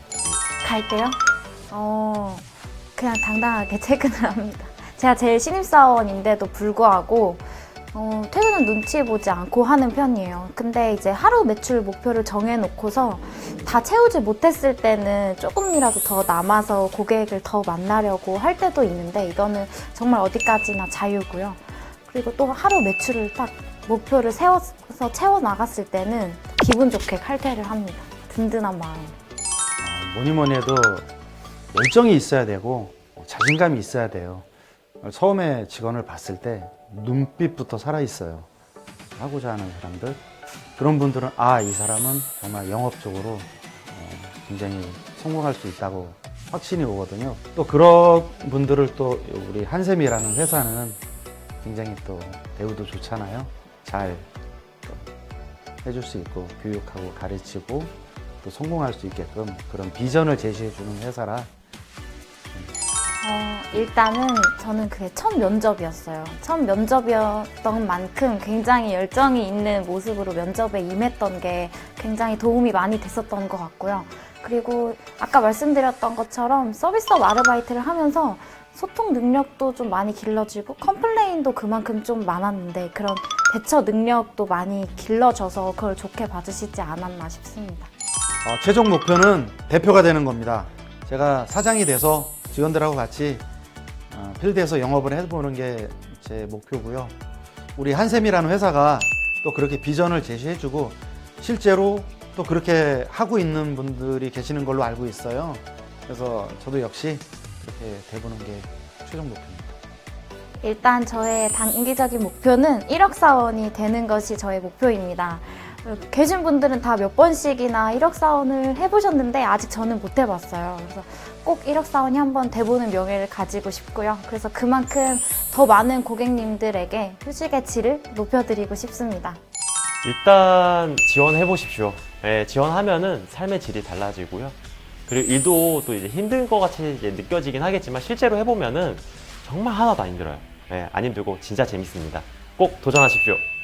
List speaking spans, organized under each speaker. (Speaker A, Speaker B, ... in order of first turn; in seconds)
Speaker A: 0.6-29.2, 63.2-87.9, 110.6-129.4
Speaker B: 29.8-31.1, 31.7-34.5, 35.0-38.5, 39.2-40.2, 40.8-51.0, 51.6-54.3, 54.8-55.1, 55.8-61.5, 88.4-93.4, 94.1-97.2, 97.8-109.8
Speaker C: 130.0-134.6, 135.1-143.4